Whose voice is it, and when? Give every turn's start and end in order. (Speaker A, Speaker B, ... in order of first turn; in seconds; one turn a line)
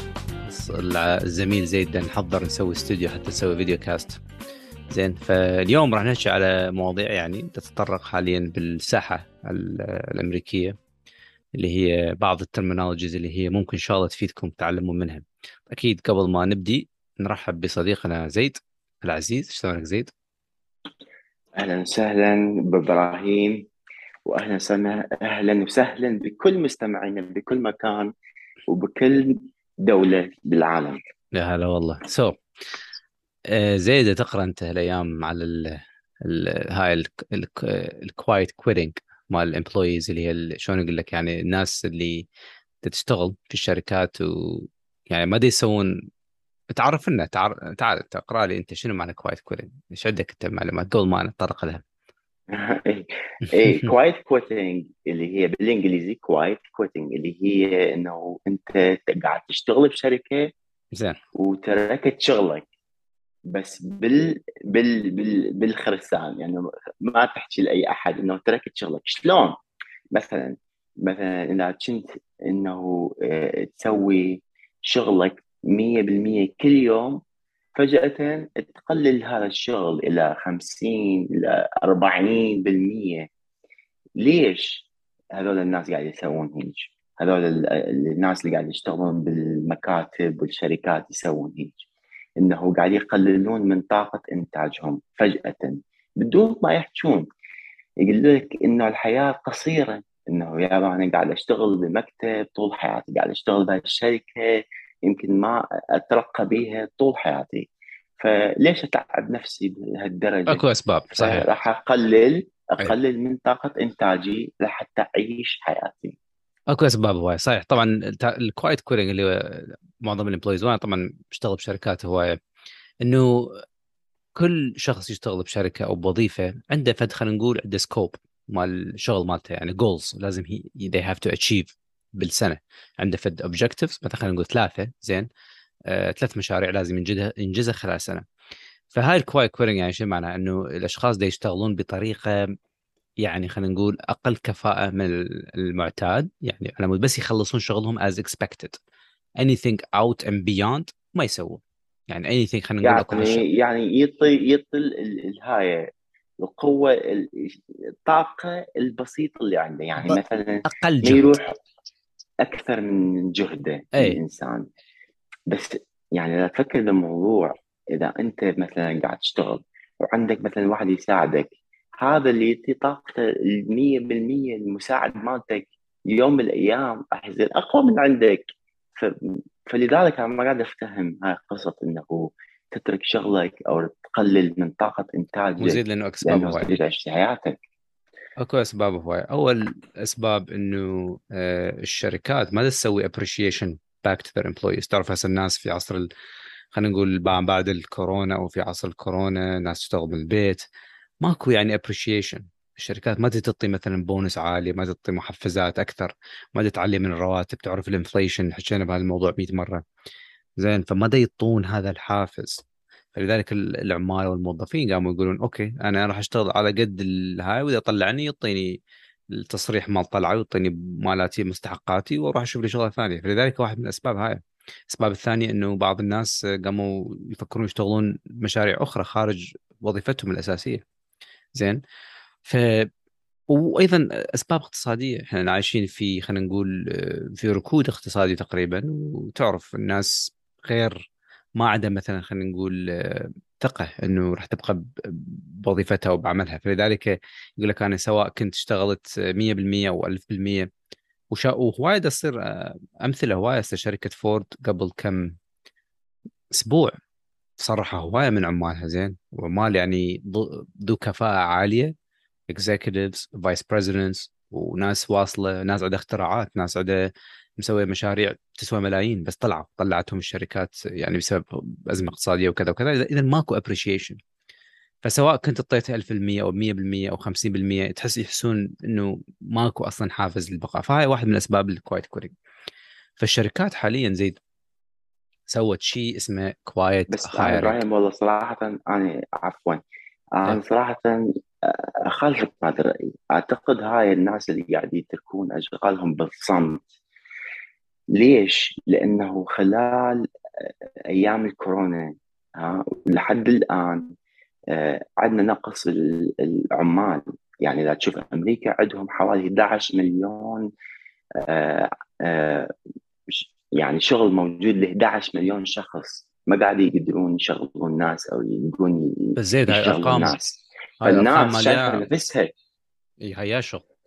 Speaker A: 0.4-4.2
Speaker A: 4.9-10.8
Speaker A: 11.6-20.1
Speaker B: 21.6-23.7
Speaker B: 24.2-28.1
Speaker B: 28.7-31.0
Speaker A: 31.3-32.4
Speaker A: 33.5-42.2
Speaker A: 42.8-45.9
Speaker A: 46.7-51.8
Speaker B: 52.5-60.5
Speaker A: 53.4-53.9
Speaker A: 60.9-61.2
Speaker B: 61.3-62.6
Speaker B: 63.5-69.5
Speaker B: 70.1-77.2
Speaker B: 77.8-83.3
Speaker B: 84.2-91.8
Speaker B: 92.4-97.3
Speaker B: 98.0-107.7
Speaker B: 108.2-116.2
Speaker A: 110.5-111.5
Speaker A: 116.7-122.4
Speaker A: 123.0-123.6
Speaker A: 124.3-135.3
Speaker A: 135.9-138.2
Speaker A: 138.9-142.5
Speaker A: 143.2-148.8
Speaker A: 149.4-153.4
Speaker B: 152.8-155.8
Speaker B: 156.4-161.5
Speaker A: 160.0-161.3
Speaker B: 162.4-164.7
Speaker B: 165.5-178.4
Speaker B: 179.7-187.6
Speaker A: 185.6-186.7
Speaker A: 188.4-196.1
Speaker A: 196.7-200.6
Speaker A: 201.2-209.8
Speaker A: 210.6-218.8
Speaker A: 219.3-230.8
Speaker A: 231.5-231.8
Speaker A: 232.4-232.9
Speaker A: 233.5-250.7
Speaker A: 251.3-255.3
Speaker A: 256.5-256.9
Speaker A: 257.6-261.9
Speaker A: 262.5-274.2
Speaker A: 275.0-282.3
Speaker A: 283.2-284.4
Speaker A: 285.5-287.8
Speaker B: 287.1-289.8
Speaker B: 290.4-296.9
Speaker B: 298.1-304.1
Speaker B: 304.7-310.7
Speaker B: 311.4-312.7
Speaker B: 313.3-322.5
Speaker A: 319.4-320.4
Speaker A: 321.0-322.0
Speaker A: 323.2-323.8